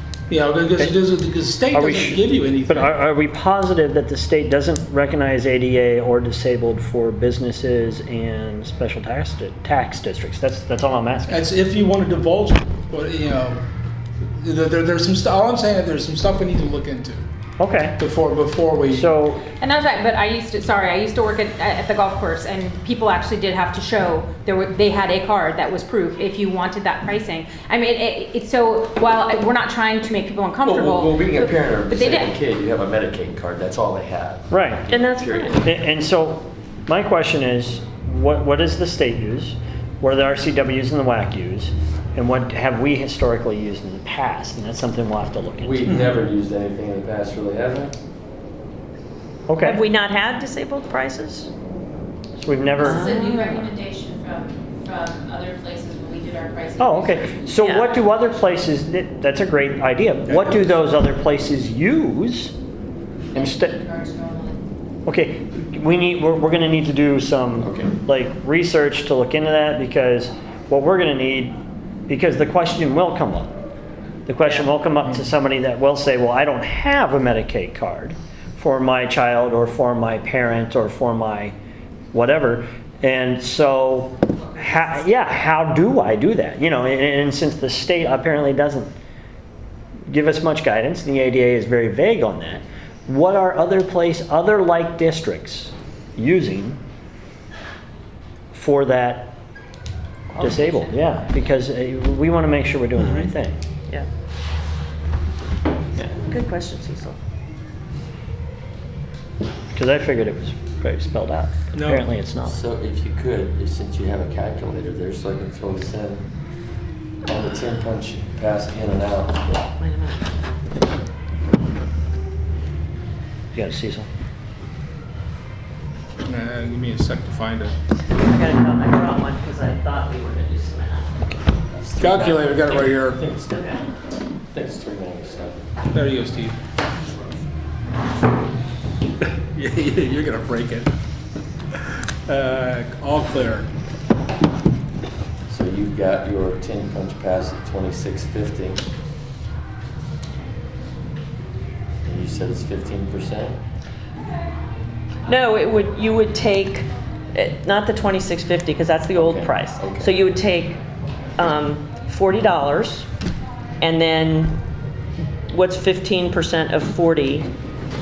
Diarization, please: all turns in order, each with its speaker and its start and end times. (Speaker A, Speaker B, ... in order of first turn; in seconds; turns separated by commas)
Speaker A: 0.3-2.9, Speaker B: 1.7-11.4, Speaker A: 11.3-13.6, Speaker A: 14.3-17.2, Speaker B: 17.6-18.0, Speaker A: 18.0-19.1, Speaker B: 18.9-19.4, Speaker C: 19.6-32.3, Speaker D: 30.6-35.7, Speaker B: 34.5-34.8, Speaker E: 34.9-35.6, Speaker B: 35.6-45.9, Speaker D: 45.6-47.9, Speaker B: 49.5-49.8, Speaker E: 49.6-51.5, Speaker B: 52.4-53.3, Speaker F: 52.8-57.5, Speaker E: 52.8-53.7, Speaker B: 56.8-62.5, Speaker E: 57.6-57.9, Speaker D: 60.3-60.7, Speaker B: 63.3-63.8, Speaker F: 63.3-64.6, Speaker B: 65.0-71.5, Speaker D: 67.6-67.9, Speaker B: 72.1-73.5, Speaker B: 74.2-81.5, Speaker E: 74.4-74.7, Speaker B: 82.1-88.9, Speaker B: 90.1-96.8, Speaker B: 98.5-99.3, Speaker E: 100.3-100.9, Speaker B: 100.4-103.6, Speaker E: 103.0-103.3, Speaker E: 106.0-107.2, Speaker B: 109.7-112.6, Speaker A: 111.7-112.1, Speaker D: 112.5-116.2, Speaker D: 117.2-119.5, Speaker E: 119.8-120.3, Speaker B: 123.5-124.1, Speaker A: 126.2-127.7, Speaker E: 128.1-131.2, Speaker D: 131.8-133.8, Speaker A: 132.0-133.2, Speaker E: 133.5-133.8, Speaker D: 134.5-135.6, Speaker A: 135.9-136.6, Speaker A: 139.5-140.9, Speaker A: 142.2-143.7, Speaker D: 145.5-148.8, Speaker D: 152.0-153.6, Speaker E: 155.3-160.8, Speaker D: 159.1-160.1, Speaker E: 161.4-163.1, Speaker E: 163.8-164.6, Speaker E: 165.5-167.5